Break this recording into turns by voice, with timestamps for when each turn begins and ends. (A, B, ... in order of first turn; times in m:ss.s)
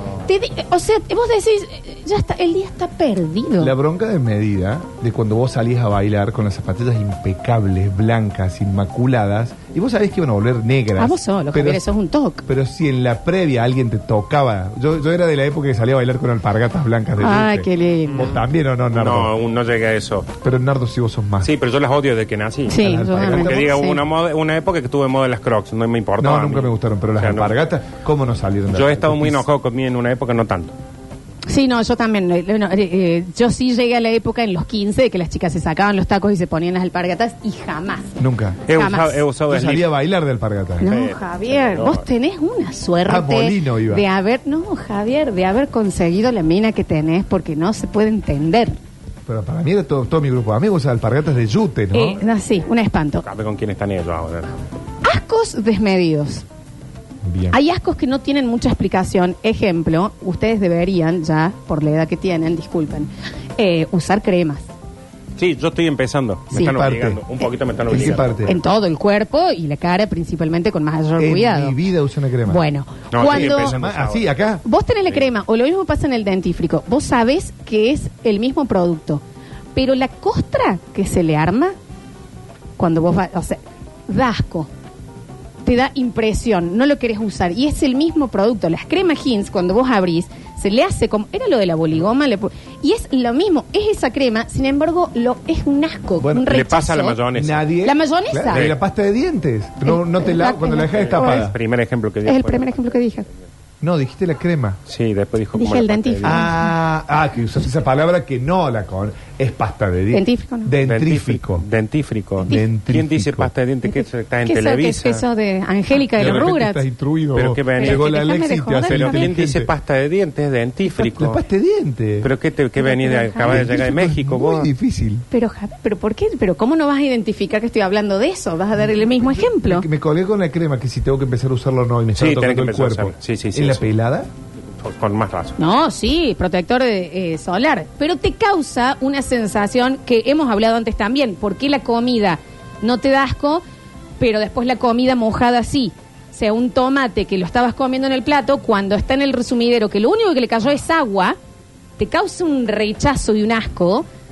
0:00.2-0:03.7 A
0:03.6-0:11.8 B
0:11.0-0:12.4 A
0:12.4-0:19.3 B
0:17.2-0:18.3 A
0:18.1-0:18.4 C
0:18.9-0:20.3 C
0:20.4-0:21.5 B
0:21.4-0:27.5 C
0:22.7-0:24.0 A
0:22.8-0:23.7 B
0:26.2-0:29.4 B
0:28.7-0:30.8 C
0:31.5-0:39.2 A
0:38.2-0:38.6 B
0:38.7-0:39.8 C
0:39.5-0:40.9 B
0:40.8-0:48.8 A
0:40.8-0:42.0 C
0:43.0-0:44.0 B
0:49.2-0:52.2 B
0:51.9-0:53.2 A
0:53.2-0:54.6 C
0:55.0-0:56.4 A
0:57.2-0:57.6 B
0:57.5-1:04.6 A
1:05.4-1:08.6 C
1:06.5-1:07.2 B
1:07.9-1:08.6 B
1:08.4-1:11.8 A
1:11.2-1:12.6 B
1:12.4-1:13.8 A
1:13.1-1:14.3 C
1:13.2-1:14.6 B
1:14.6-1:19.2 A
1:19.7-1:21.7 A
1:22.8-1:24.7 A
1:25.6-1:37.2 A
1:36.2-1:36.5 B
1:36.5-1:37.7 C
1:37.3-1:41.6 B
1:37.8-1:38.7 A
1:39.8-1:41.4 A
1:40.9-1:43.4 C
1:42.2-1:43.3 A
1:43.8-1:44.8 B
1:44.9-1:46.4 C
1:45.5-1:46.7 A
1:46.2-1:51.6 B
1:50.1-1:50.7 A
1:50.8-1:55.2 C
1:52.4-1:53.5 B
1:53.8-1:56.8 A
1:56.2-1:56.5 C
1:56.2-1:59.7 B
1:57.3-1:58.1 C
1:57.8-1:59.3 A
1:58.9-2:01.4 C
2:01.0-2:02.3 B
2:02.2-2:04.7 C
2:02.8-2:03.7 A
2:03.5-2:05.2 B
2:05.3-2:09.9 A
2:09.3-2:14.3 B
2:12.2-2:13.8 C
2:14.7-2:15.6 C
2:15.6-2:23.6 A
2:24.2-2:31.4 A
2:32.0-2:34.0 A